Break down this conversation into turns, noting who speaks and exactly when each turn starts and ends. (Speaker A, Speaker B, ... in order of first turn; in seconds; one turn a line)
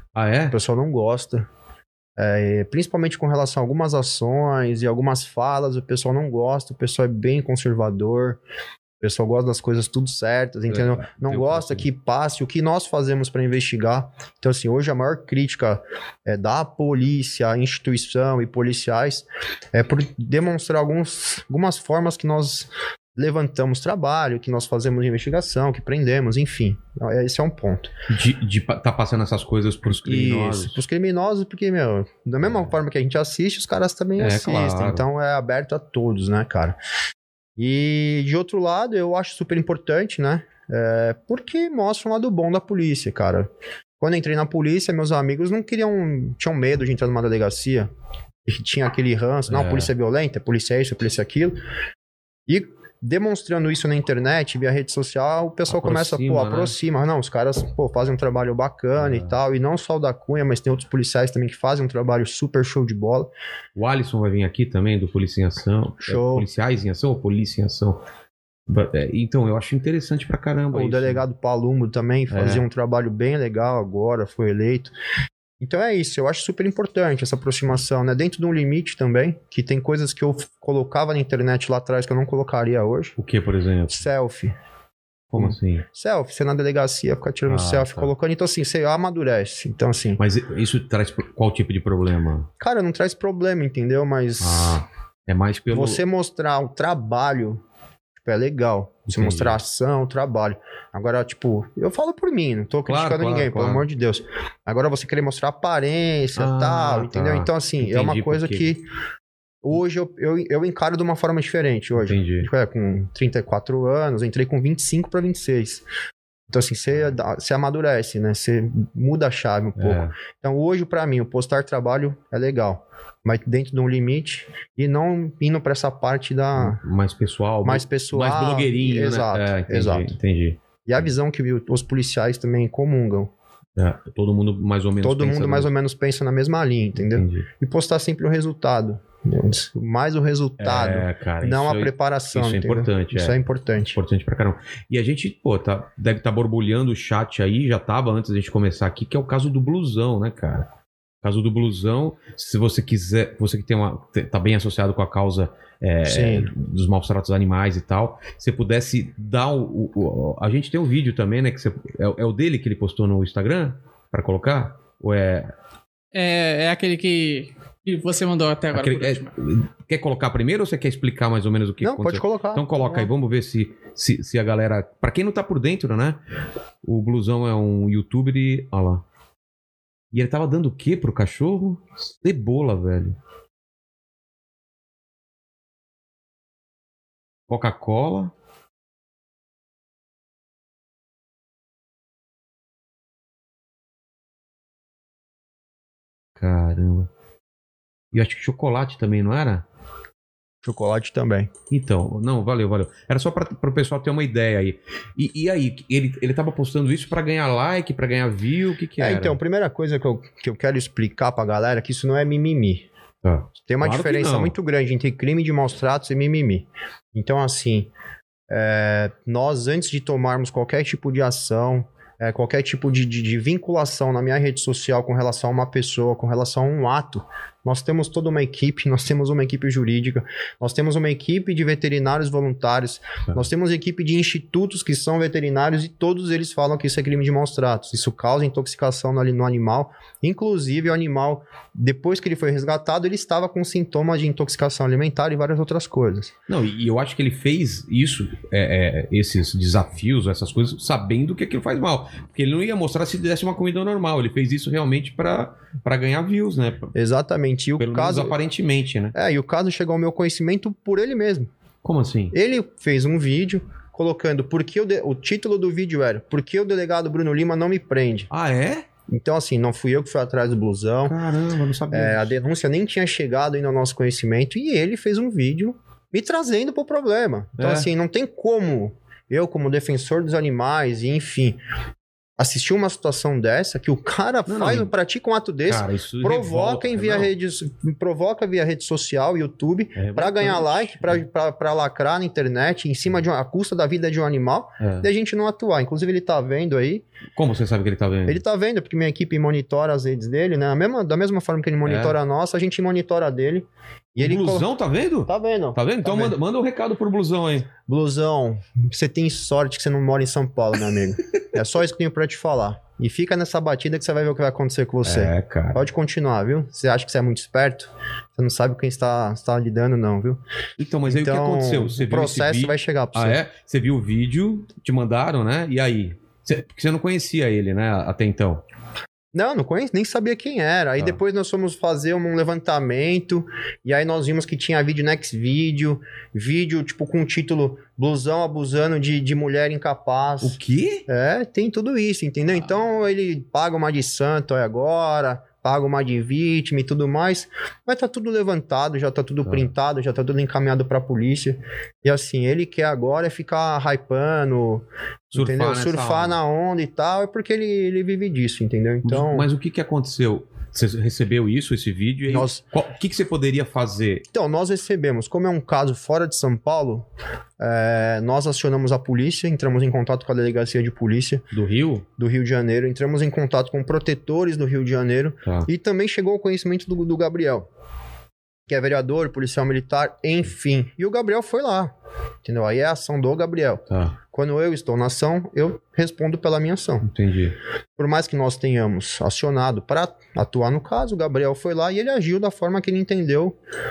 Speaker A: 0.1-0.6
Speaker B: 0.5-1.5
Speaker B: 2.2-8.4
Speaker B: 9.0-27.9
Speaker A: 10.7-11.9
Speaker A: 28.1-30.8
Speaker B: 29.9-36.8
Speaker A: 32.4-32.7
Speaker A: 34.2-35.0
Speaker B: 37.6-43.5
Speaker B: 44.0-47.9
Speaker B: 48.5-51.6
Speaker A: 49.5-49.9
Speaker B: 52.5-63.3
Speaker A: 55.7-56.8
Speaker A: 59.0-59.4
Speaker A: 63.8-68.0
Speaker B: 66.0-66.5
Speaker A: 68.7-71.2
Speaker B: 70.7-74.9
Speaker A: 72.3-72.6
Speaker B: 75.6-83.2
Speaker A: 83.2-84.1
Speaker B: 83.9-84.5
Speaker A: 85.3-85.9
Speaker B: 85.4-90.2
Speaker A: 87.5-88.1
Speaker A: 90.2-92.5
Speaker B: 92.6-94.8
Speaker A: 94.4-96.0
Speaker B: 95.7-97.6
Speaker B: 98.2-108.9
Speaker A: 99.1-99.6
Speaker A: 102.9-103.9
Speaker A: 106.4-108.7
Speaker B: 109.6-115.8
Speaker A: 112.0-112.5
Speaker B: 116.5-126.8
Speaker A: 119.8-120.1
Speaker A: 126.6-131.1
Speaker B: 127.6-130.1
Speaker B: 130.9-133.3
Speaker A: 133.8-135.7
Speaker B: 135.0-144.0
Speaker A: 137.0-137.5
Speaker A: 140.6-143.4
Speaker A: 143.9-150.7
Speaker A: 151.2-165.5
Speaker B: 156.1-156.5
Speaker C: 166.1-169.3
Speaker A: 168.7-176.2
Speaker B: 171.8-173.1
Speaker A: 176.8-179.0
Speaker A: 180.1-183.2
Speaker A: 187.5-188.3
Speaker A: 196.4-197.1
Speaker A: 198.1-199.7
Speaker B: 200.6-201.5
Speaker A: 201.7-209.4
Speaker B: 209.0-212.9
Speaker A: 213.2-214.6
Speaker B: 213.7-217.9
Speaker B: 218.5-246.3
Speaker A: 246.5-256.9
Speaker B: 256.9-258.4
Speaker A: 257.8-259.1
Speaker B: 259.1-261.5
Speaker A: 261.8-262.4
Speaker B: 262.3-268.3
Speaker A: 268.3-268.9
Speaker B: 269.1-271.2
Speaker A: 271.1-272.4
Speaker B: 271.9-281.6
Speaker A: 277.6-277.9
Speaker B: 282.4-297.1
Speaker A: 284.5-284.9
Speaker A: 285.7-287.3
Speaker A: 290.0-291.2
Speaker A: 294.8-295.1
Speaker A: 297.4-298.4
Speaker B: 298.3-304.7
Speaker A: 301.9-302.2
Speaker A: 304.2-307.7
Speaker B: 305.3-306.4
Speaker B: 307.9-320.4
Speaker A: 315.0-315.8
Speaker A: 320.8-328.6
Speaker B: 321.1-323.4
Speaker B: 329.3-359.5
Speaker A: 340.4-341.1
Speaker A: 349.4-349.7
Speaker A: 355.3-356.4
Speaker A: 359.0-364.3
Speaker B: 362.3-362.6
Speaker B: 364.3-367.1
Speaker B: 367.6-371.5
Speaker A: 371.5-372.1
Speaker B: 372.2-377.7
Speaker B: 378.7-381.9
Speaker B: 382.4-387.1
Speaker A: 383.9-384.2
Speaker A: 387.0-387.6
Speaker B: 388.0-393.6